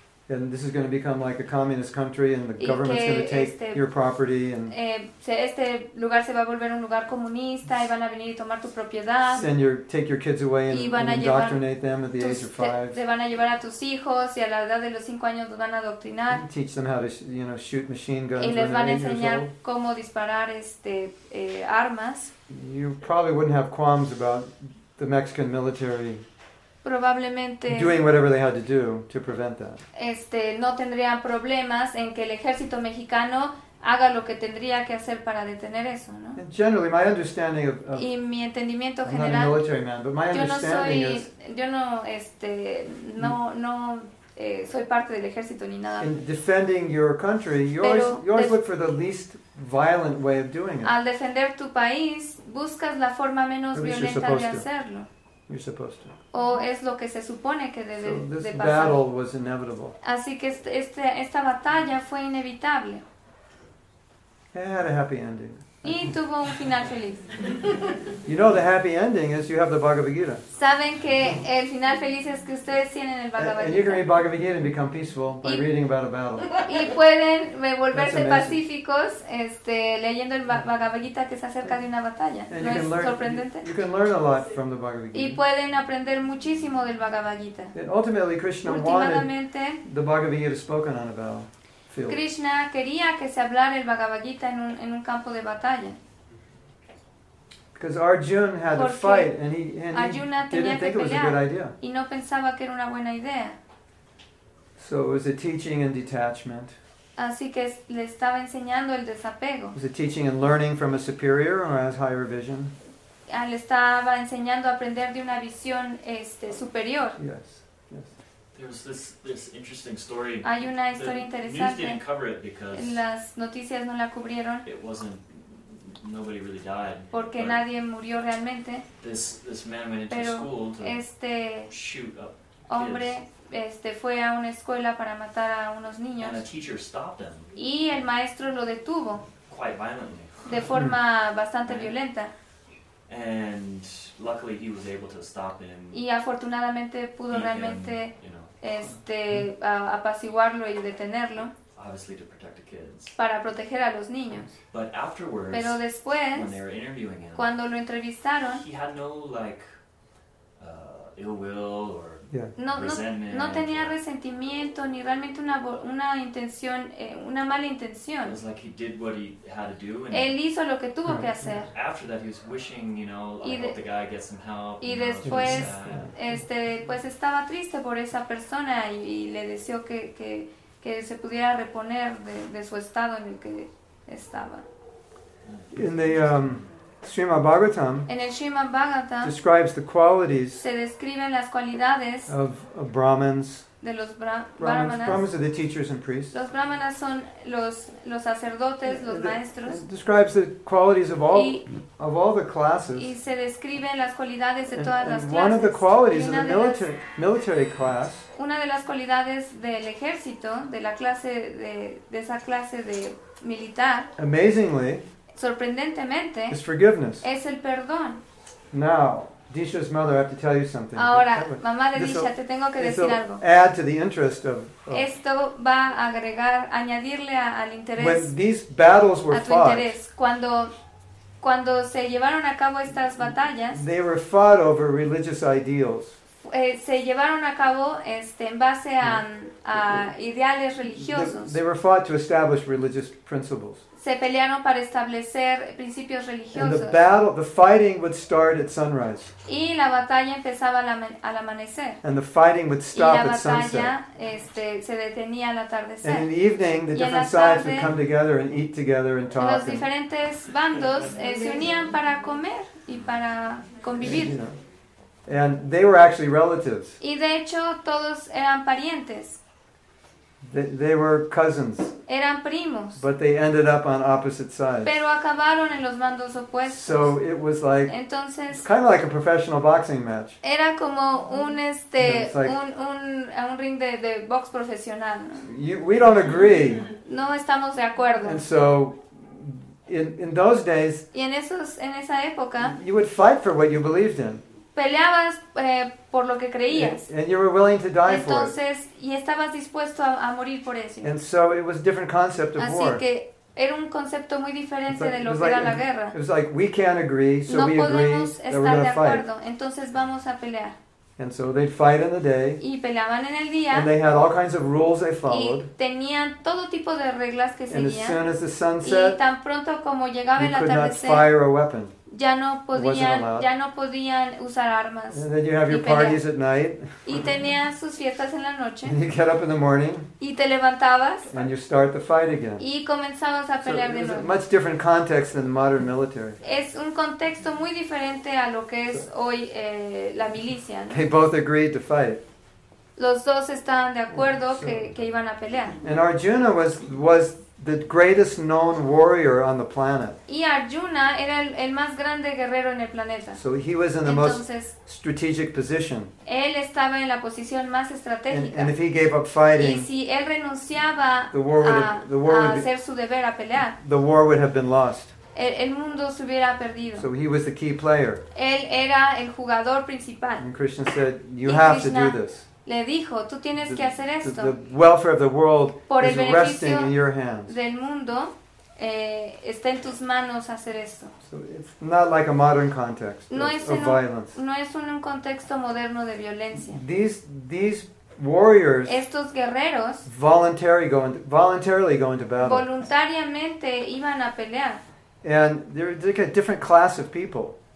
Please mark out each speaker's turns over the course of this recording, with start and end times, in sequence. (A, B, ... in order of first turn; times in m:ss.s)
0:00.3-0:04.7 A
0:02.6-0:03.8 B
0:04.7-0:09.4 B
0:09.3-0:13.0 A
0:10.7-0:11.6 B
0:12.2-0:16.4 B
0:16.3-0:19.5 A
0:18.4-0:22.3 B
0:22.5-0:26.2 A
0:26.8-0:28.0 B
0:27.7-0:29.8 A
0:29.9-0:36.4 B
0:36.4-0:38.0 A
0:37.9-0:39.6 B
0:39.0-0:41.3 A
0:40.3-0:46.2 B
0:46.0-0:50.9 A
0:47.8-0:48.6 B
0:50.8-0:55.1 B
0:53.7-0:54.6 A
0:55.5-0:56.1 A
0:56.3-0:59.0 B
0:58.0-1:00.0 A
1:00.0-1:03.0 B
1:04.5-1:06.1 A
1:05.8-1:07.3 B
1:08.2-1:10.4 A
1:10.5-1:14.1 B
1:13.4-1:16.6 A
1:16.6-1:23.7 B
1:17.9-1:18.6 A
1:22.5-1:25.4 A
1:25.1-1:27.7 B
1:27.7-1:29.3 A
1:28.6-1:29.8 B
1:29.8-1:32.2 A
1:32.1-1:36.0 B
1:37.7-1:41.8 A
1:38.7-1:39.3 B
1:39.9-1:43.6 B
1:44.8-1:46.8 A
1:47.2-1:49.8 B
1:49.7-1:52.7 A
1:53.3-1:57.2 B
1:57.2-1:58.1 A
1:58.5-2:03.0 C
2:00.4-2:02.0 B
2:02.7-2:04.6 B
2:04.6-2:07.6 C
2:07.1-2:08.8 B
2:09.0-2:11.0 C
2:10.1-2:11.7 B
2:11.7-2:13.2 C
2:12.7-2:16.4 B
2:16.2-2:17.5 C
2:17.5-2:19.2 B
2:19.4-2:20.7 C
2:20.4-2:22.3 B
2:21.6-2:21.9 C
2:23.1-2:26.0 C
2:25.9-2:31.5 B
2:27.3-2:28.6 C
2:31.8-2:33.2 C
2:33.1-2:34.5 B
2:34.7-2:37.5 C
2:35.5-2:36.6 B
2:37.3-2:38.6 B
2:38.4-2:39.7 C
2:40.6-2:43.9 C
2:42.6-2:48.4 B
2:48.2-2:50.3 C
2:50.1-2:51.7 B
2:51.0-2:51.6 A
2:51.6-2:56.1 C
2:53.4-2:53.8 B
2:54.8-3:04.6 B
2:55.2-2:56.1 A
3:05.4-3:05.9 C
3:05.7-3:08.1 A
3:08.1-3:09.3 B
3:09.2-3:10.6 A
3:10.6-3:12.3 B
3:12.3-3:13.6 A
3:13.8-3:15.3 B
3:14.6-3:16.3 A
3:16.3-3:19.8 B
3:18.8-3:23.1 A
3:21.3-3:21.6 B
3:22.9-3:26.9 B
3:24.7-3:28.3 A
3:28.3-3:34.1 B
3:34.2-3:35.0 A
3:35.3-3:36.6 B
3:36.5-3:37.2 A
3:37.2-3:38.2 B
3:38.7-3:45.0 A
3:40.9-3:43.4 B
3:44.9-3:48.3 B
3:48.0-3:50.0 A
3:49.3-3:50.7 B
3:51.4-3:53.8 B
3:53.7-3:56.2 A
3:56.4-4:01.6 B
4:01.0-4:03.8 A
4:03.9-4:07.0 B
4:06.5-4:09.3 A
4:09.4-4:12.0 B
4:12.0-4:13.9 A
4:12.9-4:16.3 B
4:16.0-4:19.9 A
4:16.9-4:17.9 B
4:19.3-4:24.4 B
4:24.0-4:24.6 A
4:25.2-4:27.0 A
4:27.0-4:29.4 B
4:30.4-4:31.9 A
4:32.1-4:33.0 B
4:33.0-4:35.0 A
4:34.8-4:37.2 B
4:36.6-4:37.9 A
4:37.8-4:38.6 B
4:38.5-4:40.4 A
4:40.4-4:45.5 B
4:42.0-4:42.6 A
4:45.4-4:46.9 A
4:47.0-4:48.4 B
4:48.2-4:51.0 A
4:51.1-4:52.8 B
4:52.6-4:54.4 A
4:54.7-4:57.1 B
4:56.7-4:58.5 A
4:58.0-5:01.1 B
5:01.0-5:03.0 A
5:02.6-5:06.2 B
5:04.9-5:09.2 A
5:07.5-5:10.8 B
5:11.2-5:12.6 A
5:12.6-5:13.9 B
5:13.7-5:15.7 A
5:15.3-5:18.2 B
5:17.7-5:19.2 A
5:18.8-5:21.3 B
5:20.4-5:21.9 A
5:22.1-5:26.2 B
5:22.7-5:23.5 A
5:25.1-5:27.2 A
5:27.0-5:29.0 B
5:28.8-5:30.1 A
5:30.2-5:31.3 B
5:31.3-5:32.6 A
5:32.6-5:34.4 B
5:33.6-5:36.4 A
5:36.4-5:41.0 B
5:40.9-5:42.2 A
5:43.0-5:45.8 B
5:44.1-5:44.9 A
5:45.8-5:50.2 A
5:50.3-5:53.4 B
5:53.3-5:56.1 A
5:54.0-5:54.7 B
5:56.2-5:58.7 B
5:58.3-5:59.9 A
5:59.5-6:03.8 B
6:01.3-6:02.7 A
6:03.8-6:05.1 A
6:05.3-6:07.1 B
6:07.0-6:08.2 A
6:08.3-6:10.4 B
6:10.4-6:12.4 A
6:11.4-6:14.6 B
6:13.6-6:17.6 A
6:15.9-6:16.9 B
6:17.4-6:21.1 B
6:21.2-6:24.4 A
6:23.3-6:26.8 B
6:26.6-6:29.0 A
6:28.8-6:30.0 B
6:30.0-6:32.6 A
6:32.4-6:34.8 B
6:35.2-6:37.5 A